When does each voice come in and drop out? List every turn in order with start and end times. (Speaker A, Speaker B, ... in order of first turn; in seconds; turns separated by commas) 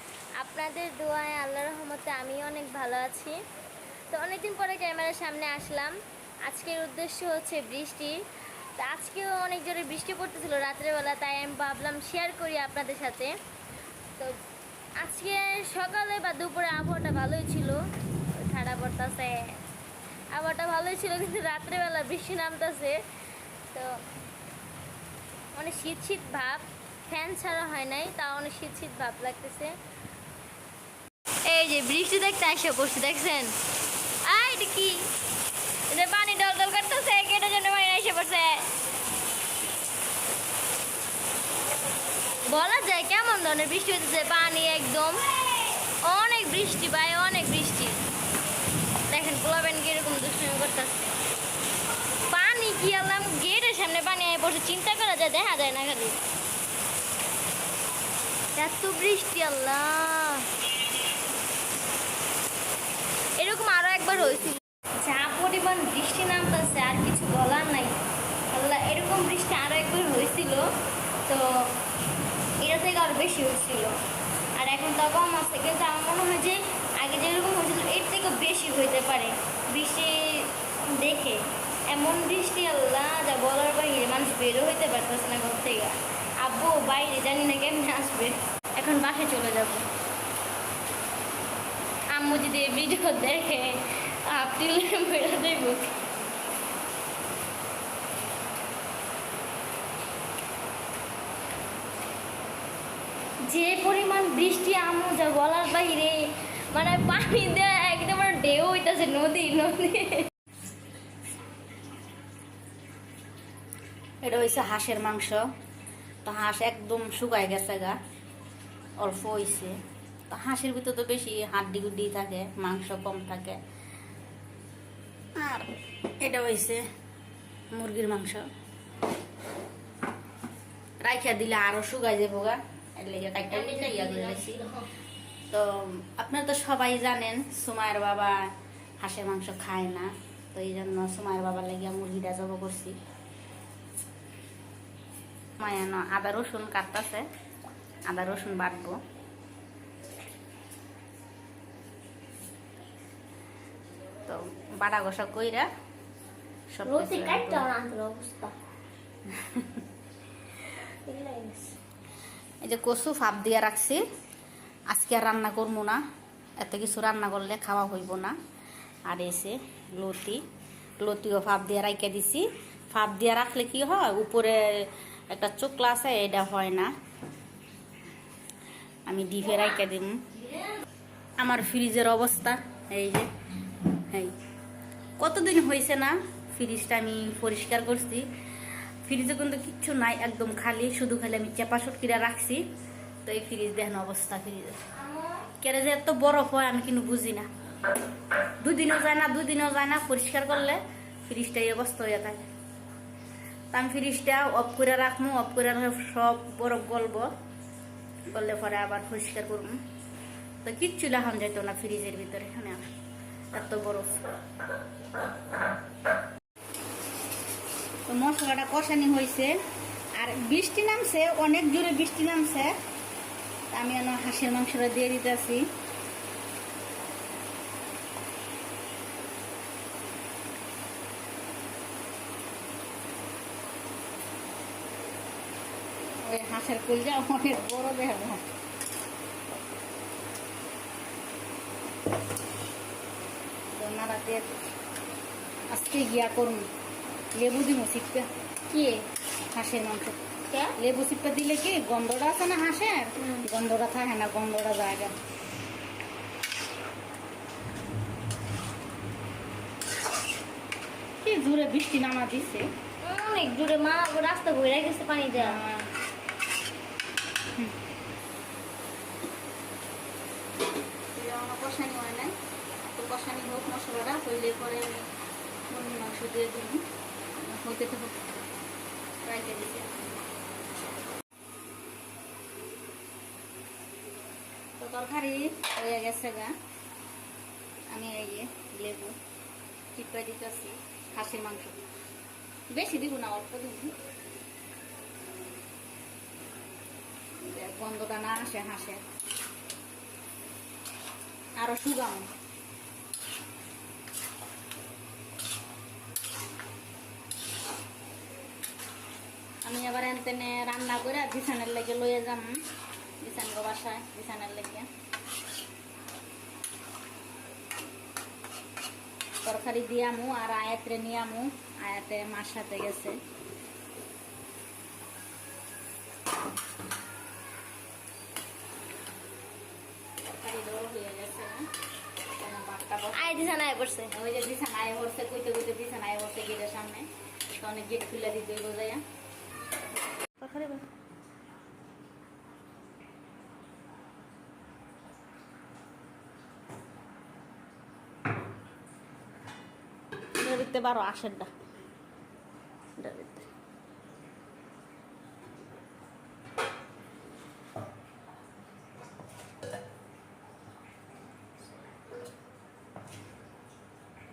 Speaker A: 0.4-3.4, Speaker A: 4.1-5.9, Speaker A: 6.5-8.1, Speaker A: 8.8-13.3, Speaker A: 15.0-19.5, Speaker A: 20.3-23.0, Speaker A: 25.5-29.7, Speaker A: 31.4-33.5, Speaker A: 34.2-35.0, Speaker A: 35.9-38.6, Speaker A: 42.4-45.4, Speaker A: 45.9-48.0, Speaker A: 49.1-51.1, Speaker A: 52.3-56.2, Speaker A: 58.5-60.5, Speaker A: 63.4-68.0, Speaker A: 68.5-70.7, Speaker A: 72.6-74.0, Speaker A: 74.6-89.8, Speaker A: 92.1-96.0, Speaker A: 103.5-110.3, Speaker B: 114.2-115.4, Speaker B: 116.2-118.0, Speaker B: 119.0-119.8, Speaker B: 120.3-123.6, Speaker B: 125.3-125.7, Speaker B: 126.2-126.8, Speaker B: 127.7-128.4, Speaker B: 131.0-134.6, Speaker A: 133.5-134.8, Speaker B: 135.5-143.0, Speaker B: 145.6-147.2, Speaker B: 148.1-149.0, Speaker B: 154.2-155.7, Speaker B: 156.7-157.7, Speaker A: 156.8-158.5, Speaker B: 159.3-159.8, Speaker A: 161.0-161.8, Speaker B: 162.6-164.0, Speaker B: 164.9-166.0, Speaker B: 166.6-168.3, Speaker B: 169.1-170.4, Speaker B: 171.0-176.9, Speaker B: 179.1-180.2, Speaker B: 181.4-183.3, Speaker B: 185.2-188.3, Speaker B: 189.0-192.6, Speaker B: 193.2-194.8, Speaker A: 194.9-195.5, Speaker B: 195.6-197.5, Speaker B: 198.6-202.5, Speaker B: 203.7-207.3, Speaker B: 208.3-209.8, Speaker B: 210.6-212.9, Speaker B: 213.5-214.2, Speaker B: 218.1-219.6, Speaker B: 220.2-222.7, Speaker B: 223.7-225.6, Speaker B: 236.2-238.4, Speaker B: 243.8-244.6, Speaker B: 245.7-246.6, Speaker B: 247.4-248.3, Speaker A: 248.7-249.1, Speaker B: 249.5-250.2, Speaker A: 250.5-250.8, Speaker B: 250.8-255.1, Speaker B: 261.2-262.7, Speaker A: 263.0-265.6, Speaker B: 265.4-265.9, Speaker B: 271.1-275.1, Speaker B: 275.7-276.8, Speaker B: 277.4-278.1, Speaker B: 279.2-279.9, Speaker B: 284.8-286.5, Speaker B: 287.9-289.1, Speaker B: 289.9-291.8, Speaker B: 292.7-293.9, Speaker B: 297.4-299.0, Speaker B: 301.6-302.3, Speaker B: 309.6-312.6, Speaker B: 313.2-314.9, Speaker B: 319.4-323.2, Speaker B: 330.3-331.7, Speaker B: 332.4-333.5, Speaker A: 333.1-334.1, Speaker B: 334.1-339.0, Speaker B: 340.4-340.8, Speaker B: 350.4-351.5, Speaker B: 353.0-353.5